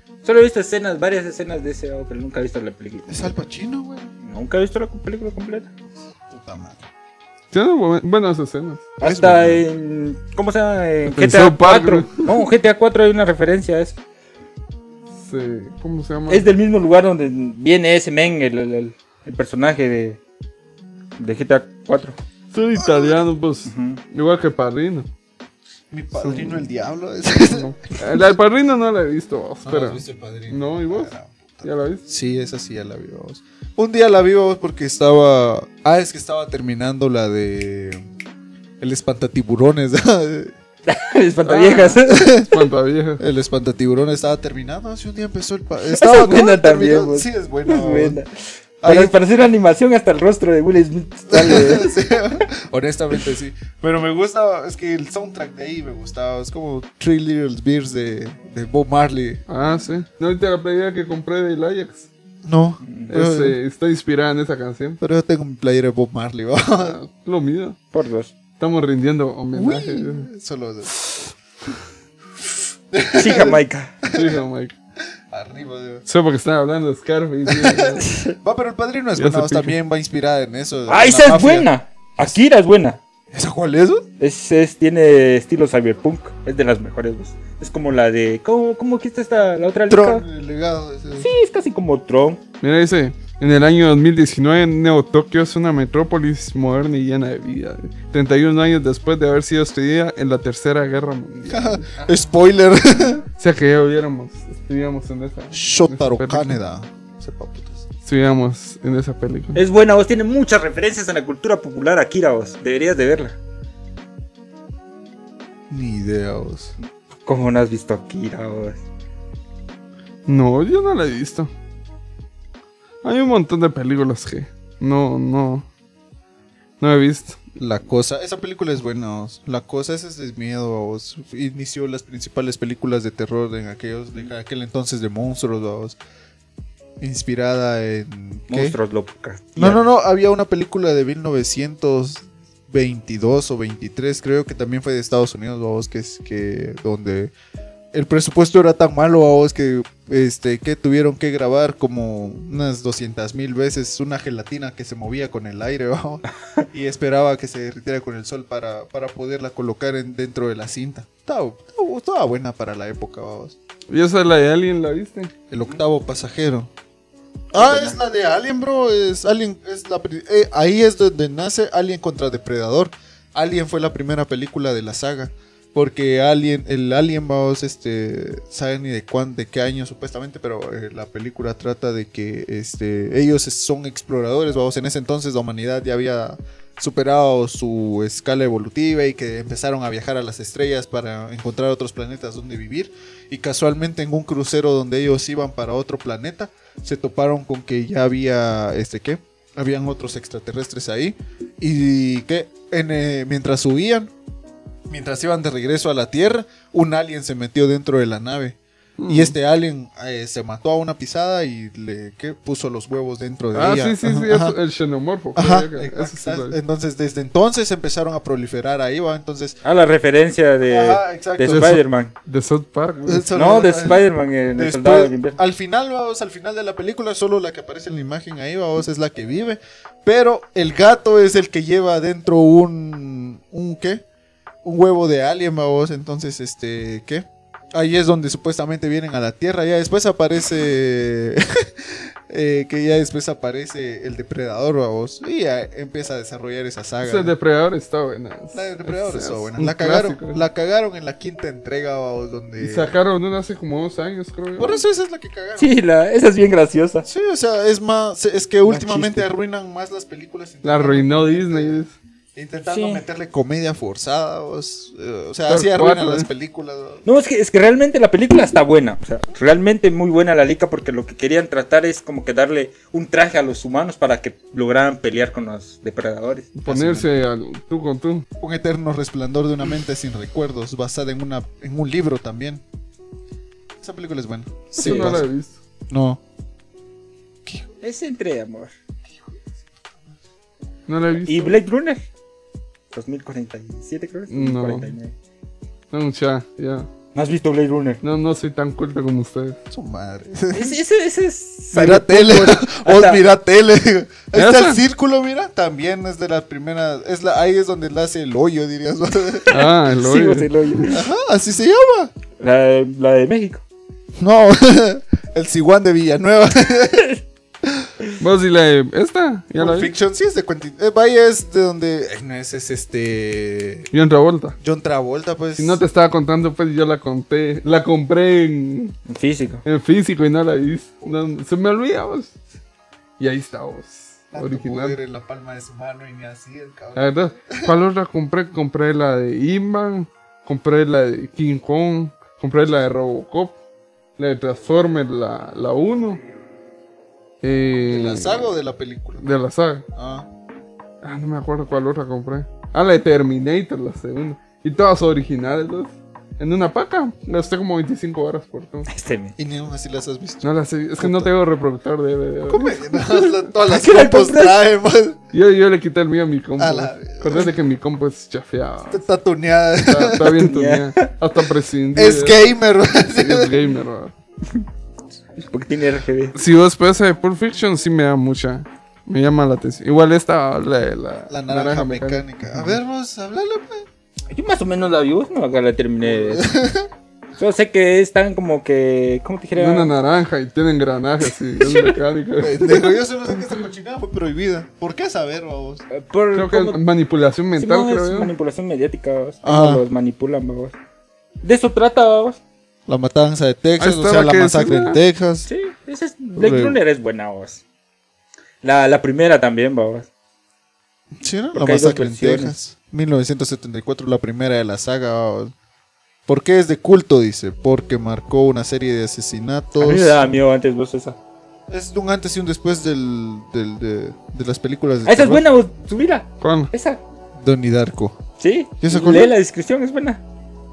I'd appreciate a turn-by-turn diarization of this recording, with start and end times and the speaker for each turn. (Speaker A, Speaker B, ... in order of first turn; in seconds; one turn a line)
Speaker A: 0.2-3.4
Speaker B: 3.1-4.1
Speaker A: 4.2-5.7
Speaker B: 6.3-6.8
Speaker C: 7.5-8.9
Speaker A: 9.0-13.9
Speaker B: 9.0-9.6
Speaker C: 11.1-12.3
Speaker C: 15.2-16.5
Speaker A: 16.3-20.2
Speaker A: 21.2-22.2
Speaker C: 22.5-25.1
Speaker B: 22.8-23.2
Speaker A: 23.6-24.0
Speaker B: 25.9-27.7
Speaker C: 26.2-26.6
Speaker C: 27.4-32.0
Speaker B: 29.6-38.0
Speaker B: 38.8-40.5
Speaker A: 40.9-42.4
Speaker C: 41.5-43.2
Speaker B: 42.0-42.5
Speaker B: 43.2-48.2
Speaker A: 45.9-48.3
Speaker A: 48.8-52.2
Speaker B: 48.8-49.1
Speaker B: 51.3-59.4
Speaker C: 59.5-62.1
Speaker B: 62.4-63.6
Speaker A: 62.8-63.1
Speaker C: 63.1-65.0
Speaker B: 65.0-67.0
Speaker C: 66.8-67.8
Speaker A: 67.9-68.3
Speaker C: 68.6-70.3
Speaker B: 69.5-70.9
Speaker B: 72.9-74.4
Speaker A: 73.1-73.9
Speaker C: 74.1-74.7
Speaker B: 75.3-76.0
Speaker C: 76.0-78.1
Speaker B: 77.5-81.7
Speaker A: 78.0-78.3
Speaker C: 79.2-79.8
Speaker A: 80.9-83.0
Speaker B: 83.3-84.0
Speaker A: 84.2-90.2
Speaker B: 89.9-91.3
Speaker A: 91.2-92.4
Speaker C: 92.6-101.9
Speaker B: 101.5-103.2
Speaker C: 103.4-106.6
Speaker B: 105.5-107.8
Speaker C: 108.0-109.6
Speaker A: 109.5-113.3
Speaker B: 115.7-116.7
Speaker A: 117.2-118.8
Speaker C: 120.2-121.5
Speaker C: 123.0-125.7
Speaker C: 126.8-127.4
Speaker B: 127.6-136.0
Speaker B: 137.0-138.8
Speaker A: 138.5-139.8
Speaker B: 139.6-147.3
Speaker B: 147.9-163.6
Speaker C: 163.9-165.3
Speaker B: 165.5-166.7
Speaker B: 167.5-204.1
Speaker A: 167.5-168.0
Speaker B: 204.9-208.6
Speaker C: 209.0-209.3
Speaker B: 209.1-214.6
Speaker C: 213.5-216.6
Speaker B: 215.3-219.6
Speaker A: 219.6-222.1
Speaker B: 220.7-221.8
Speaker C: 222.2-223.3
Speaker B: 223.1-224.0
Speaker A: 223.3-225.4
Speaker B: 224.6-234.0
Speaker B: 234.6-247.3
Speaker C: 247.0-250.4
Speaker B: 248.5-252.9
Speaker C: 252.6-254.8
Speaker B: 254.6-255.7
Speaker A: 255.6-257.1
Speaker B: 257.0-261.8
Speaker A: 258.8-259.1
Speaker C: 260.6-261.9
Speaker B: 262.4-267.0
Speaker A: 262.6-263.0
Speaker C: 265.5-266.3
Speaker A: 267.1-276.5
Speaker C: 276.6-278.2
Speaker B: 276.6-277.1
Speaker B: 278.4-282.6
Speaker B: 283.8-285.2
Speaker C: 284.7-285.6
Speaker A: 284.8-285.2
Speaker B: 285.9-286.2
Speaker A: 287.8-288.7
Speaker C: 290.9-291.6
Speaker A: 291.2-292.0
Speaker A: 292.9-295.1
Speaker C: 294.3-294.9
Speaker C: 295.9-296.9
Speaker A: 297.1-298.0
Speaker C: 298.0-299.6
Speaker B: 299.7-300.8
Speaker A: 300.5-303.2
Speaker B: 301.7-309.6
Speaker C: 304.3-304.8
Speaker C: 309.5-311.0
Speaker A: 310.0-311.0
Speaker B: 310.9-312.1
Speaker A: 312.4-313.6
Speaker B: 314.2-317.9
Speaker C: 318.2-319.9
Speaker B: 319.6-323.9
Speaker C: 323.9-324.6
Speaker B: 324.6-325.8
Speaker C: 325.6-328.9
Speaker A: 329.1-329.6
Speaker C: 329.6-332.3
Speaker C: 333.2-335.0
Speaker B: 334.3-337.7
Speaker C: 336.9-343.6
Speaker C: 344.2-346.2
Speaker C: 347.4-348.5
Speaker B: 347.9-349.2
Speaker C: 349.2-349.8
Speaker B: 349.9-350.3
Speaker C: 351.0-358.9
Speaker A: 358.9-359.3
Speaker B: 359.4-361.3
Speaker C: 360.4-362.9
Speaker B: 362.5-365.2
Speaker A: 363.2-364.6
Speaker C: 365.3-369.0
Speaker B: 366.6-367.5
Speaker B: 368.9-370.5
Speaker C: 369.8-372.4
Speaker A: 370.4-371.1
Speaker B: 371.9-373.6
Speaker C: 373.1-374.1
Speaker A: 375.4-376.4
Speaker C: 376.3-382.8
Speaker B: 381.3-383.9
Speaker A: 384.3-386.5
Speaker B: 386.1-386.9
Speaker A: 387.4-389.9
Speaker C: 389.5-392.9
Speaker B: 392.4-395.8
Speaker A: 395.9-396.8
Speaker C: 396.3-398.3
Speaker A: 397.6-400.7
Speaker B: 399.4-399.8
Speaker A: 401.4-402.4
Speaker B: 402.9-405.5
Speaker C: 403.8-405.0
Speaker A: 405.5-407.6
Speaker B: 406.4-406.8
Speaker A: 408.6-410.1
Speaker B: 411.2-415.5
Speaker A: 411.5-412.5
Speaker B: 416.2-420.3
Speaker A: 419.8-421.2
Speaker B: 421.7-425.4
Speaker A: 425.0-427.0
Speaker C: 426.4-426.7
Speaker B: 427.4-428.2
Speaker A: 428.4-430.2
Speaker B: 428.8-429.3